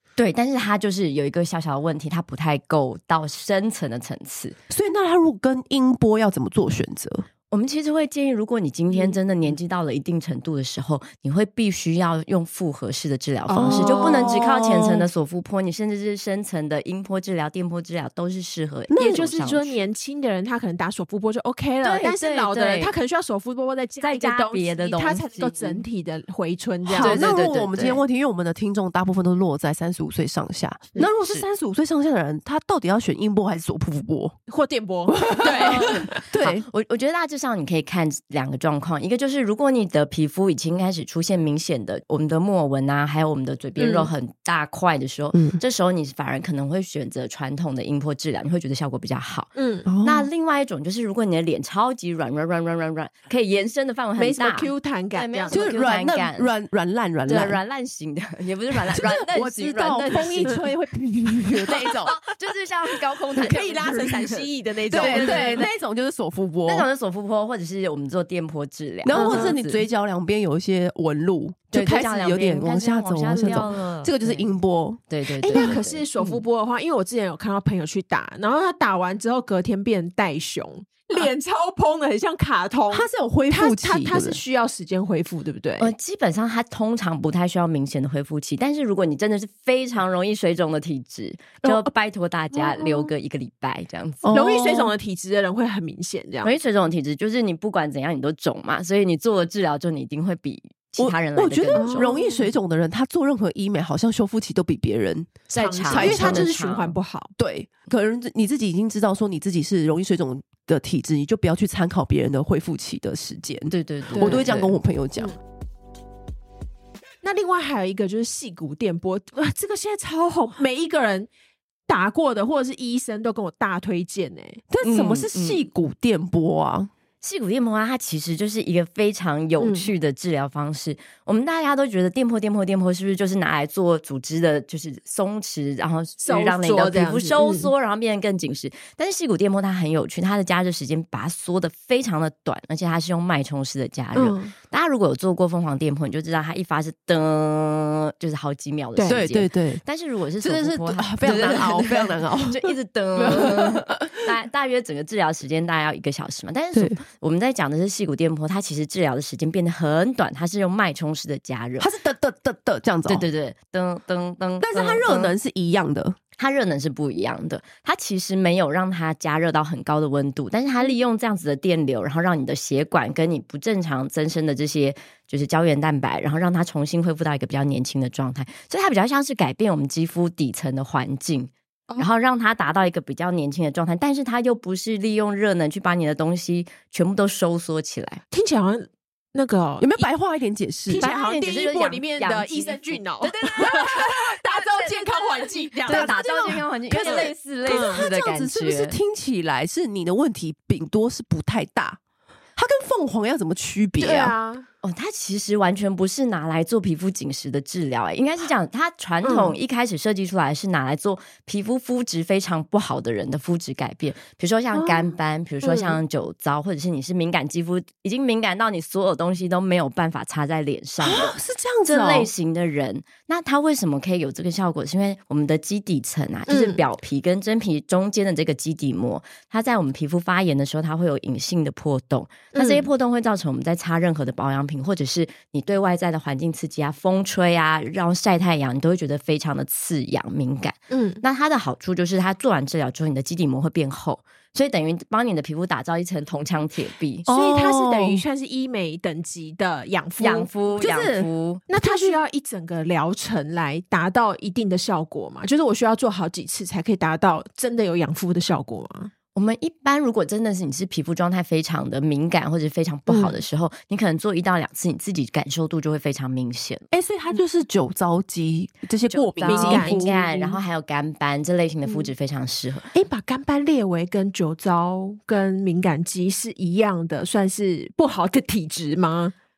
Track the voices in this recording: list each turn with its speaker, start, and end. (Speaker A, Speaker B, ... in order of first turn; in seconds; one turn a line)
Speaker A: 0.2-4.6
Speaker B: 4.7-7.2
Speaker A: 7.5-19.8
Speaker B: 13.5-15.1
Speaker C: 13.6-14.3
Speaker B: 18.9-19.2
Speaker C: 18.9-27.3
Speaker A: 21.8-22.9
Speaker A: 24.0-25.8
Speaker B: 26.9-34.4
Speaker A: 27.0-28.0
Speaker A: 30.9-31.4
Speaker C: 34.5-36.2
Speaker B: 35.3-36.6
Speaker A: 35.5-56.5
Speaker C: 43.8-44.1
Speaker B: 45.3-45.6
Speaker C: 49.6-49.9
Speaker B: 49.9-50.3
Speaker C: 54.2-55.6
Speaker B: 55.5-57.6
Speaker A: 57.2-60.6
Speaker B: 58.9-62.1
Speaker C: 59.9-60.7
Speaker A: 61.6-65.7
Speaker C: 63.3-65.7
Speaker B: 64.9-66.9
Speaker A: 66.7-69.8
Speaker B: 69.0-75.8
Speaker C: 69.1-69.6
Speaker A: 71.7-74.5
Speaker C: 73.3-73.7
Speaker A: 75.1-76.4
Speaker C: 75.5-85.9
Speaker B: 82.9-84.4
Speaker A: 85.8-94.3
Speaker B: 91.6-91.9
Speaker B: 94.2-94.9
Speaker C: 94.3-96.5
Speaker A: 96.4-102.2
Speaker B: 101.0-106.6
Speaker C: 101.7-102.5
Speaker A: 105.5-107.0
Speaker C: 105.5-107.3
Speaker B: 107.4-115.3
Speaker A: 113.7-114.8
Speaker C: 114.2-114.5
Speaker C: 117.2-121.3
Speaker C: 121.9-124.6
Speaker B: 124.7-126.9
Speaker A: 124.8-125.6
Speaker A: 127.2-161.9
Speaker C: 129.6-129.9
Speaker C: 136.2-137.7
Speaker C: 144.2-144.5
Speaker C: 148.9-149.2
Speaker B: 149.1-149.8
Speaker B: 150.4-154.2
Speaker B: 156.7-157.0
Speaker B: 161.8-163.3
Speaker A: 163.1-165.3
Speaker B: 164.6-166.2
Speaker A: 166.4-188.2
Speaker C: 188.3-190.0
Speaker B: 189.8-191.1
Speaker C: 190.9-196.1
Speaker A: 191.0-195.3
Speaker B: 193.6-194.1
Speaker A: 195.8-199.0
Speaker B: 195.8-202.0
Speaker C: 197.0-198.1
Speaker B: 202.6-204.3
Speaker C: 204.0-204.7
Speaker A: 204.8-221.4
Speaker C: 209.2-209.6
Speaker C: 215.6-216.0
Speaker B: 221.0-222.3
Speaker A: 221.9-247.3
Speaker C: 226.5-226.8
Speaker C: 232.5-232.9
Speaker C: 240.9-241.2
Speaker B: 247.3-248.2
Speaker C: 247.3-250.5
Speaker A: 250.2-251.6
Speaker B: 250.8-252.2
Speaker C: 251.7-259.1
Speaker A: 259.3-266.9
Speaker C: 263.1-263.4
Speaker B: 266.9-270.2
Speaker A: 269.1-272.9
Speaker C: 269.4-270.6
Speaker C: 272.9-279.3